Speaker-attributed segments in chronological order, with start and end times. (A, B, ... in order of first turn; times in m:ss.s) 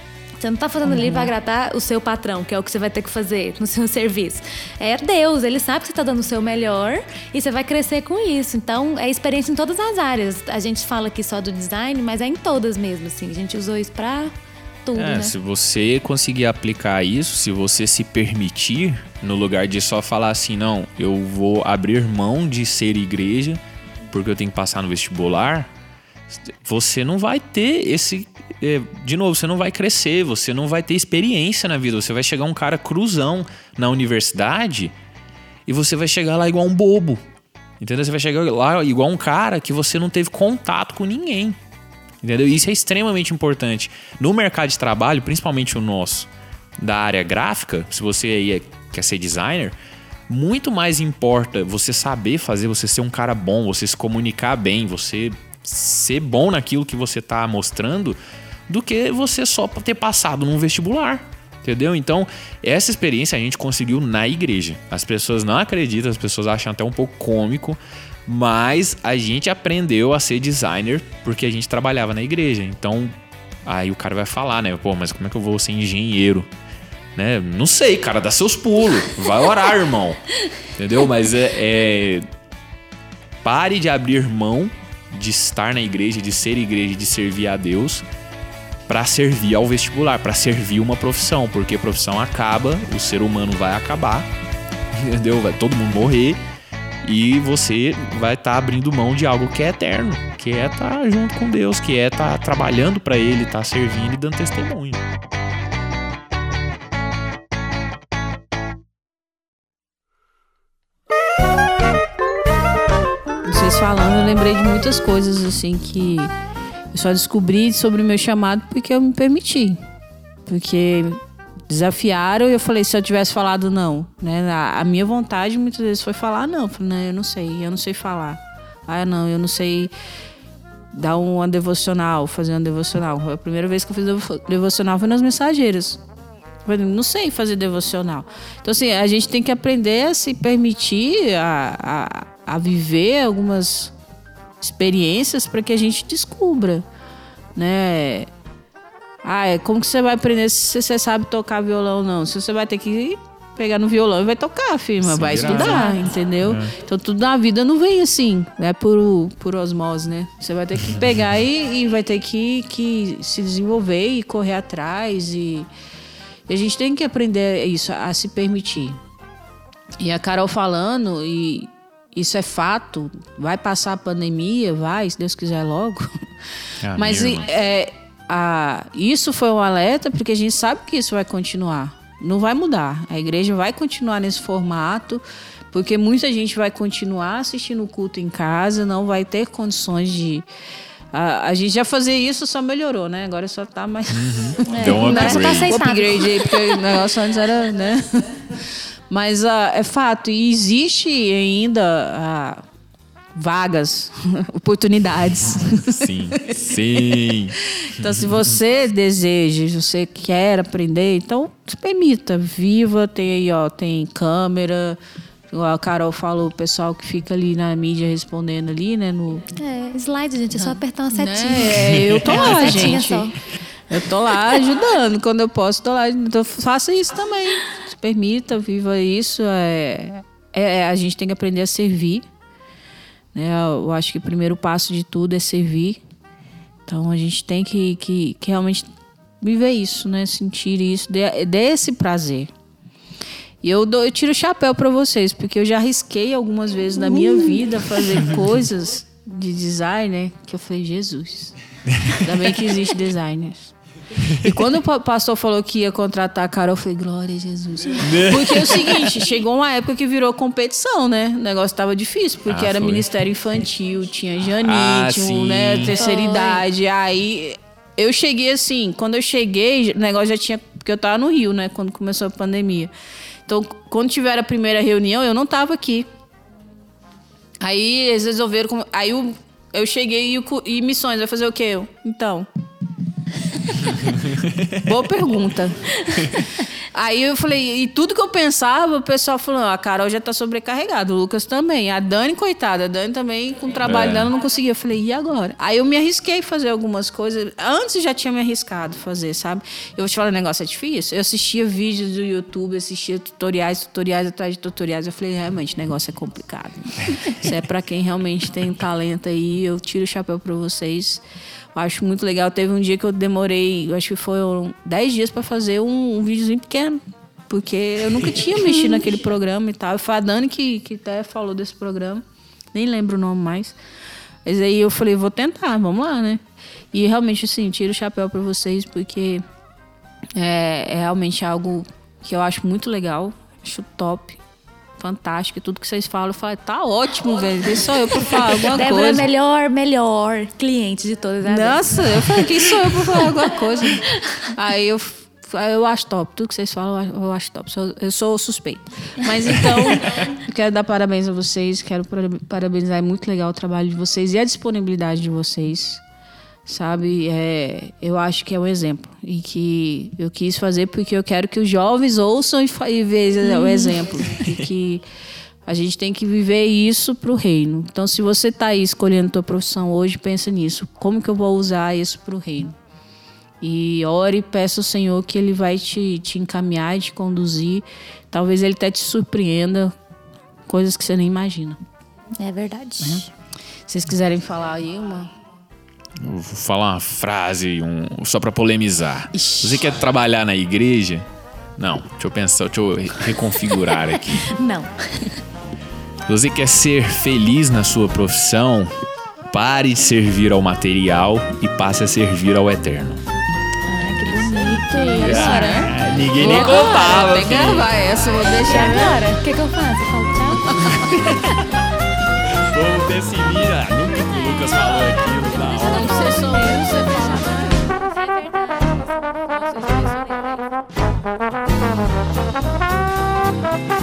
0:00.4-0:15.3 A
0:00.8-0:01.3 B
0:14.9-0:23.6 C
0:24.1-0:25.7 C
0:26.3-0:34.9 C
0:35.6-0:37.2 C
0:37.8-0:41.6 C
0:42.2-0:49.7 C
0:50.3-1:13.1 C
1:13.6-1:16.5 C
1:17.2-1:22.2 C
1:23.4-1:28.0 C
1:28.9-1:34.3 C
1:34.9-1:36.4 C
1:37.0-1:45.0 C
1:53.4-1:56.3 B
1:56.9-1:59.8 B
2:00.4-2:09.9 B
2:10.9-2:16.0 B
2:16.6-2:23.9 B
2:24.6-2:26.8 B
2:27.5-2:28.3 B
2:29.2-2:45.7 B
2:35.0-2:36.7 C
2:35.4-2:36.0 A
2:46.5-2:49.0 B
2:50.0-2:56.3 B
2:56.8-2:57.5 C
2:56.9-3:10.4 B
3:11.1-3:22.6 B
3:14.1-3:15.8 C
3:14.6-3:16.7 A
3:23.3-3:35.0 B
3:25.8-3:28.1 C
3:35.5-3:39.5 B
3:39.6-3:43.4 A
3:40.5-3:43.3 B
3:41.9-3:42.5 C
3:43.9-3:52.3 B
3:53.3-3:56.0 B
3:56.9-3:58.9 B
3:59.4-4:02.5 B
4:03.6-4:11.6 B
4:11.9-4:12.2 C
4:12.1-4:32.9 B
4:14.2-4:14.5 C
4:18.0-4:19.2 C
4:22.5-4:23.1 C
4:24.6-4:26.0 C
4:25.9-4:26.6 A
4:33.4-4:36.1 B
4:37.6-4:42.5 B
4:43.9-4:44.2 B
4:44.0-4:44.9 C
4:44.8-4:46.0 B
4:46.1-4:46.4 A
4:46.8-5:11.2 B
4:53.8-4:54.3 C
5:11.7-5:23.8 B
5:24.4-5:29.4 B
5:30.3-5:34.4 B
5:35.0-5:39.2 B
5:38.3-5:43.3 A
5:41.4-5:56.0 B
5:44.1-5:44.5 A
5:56.6-6:05.0 B
6:03.4-6:04.0 A
6:05.6-6:12.8 B
6:13.6-6:19.9 B
6:20.7-6:21.8 B
6:22.4-6:23.3 A
6:23.9-6:25.3 B
6:26.2-6:31.2 C
6:29.3-6:29.9 B
6:31.8-6:34.5 C
6:34.1-6:35.4 A
6:36.3-6:38.9 C
6:39.5-6:43.2 C
6:43.8-6:45.8 A
6:44.5-6:49.2 B
6:45.2-6:47.9 C
6:46.4-6:47.3 A
6:48.6-6:51.3 A
6:50.7-6:51.6 C
6:52.6-6:56.4 C
6:54.5-7:00.8 A
6:55.8-6:57.9 B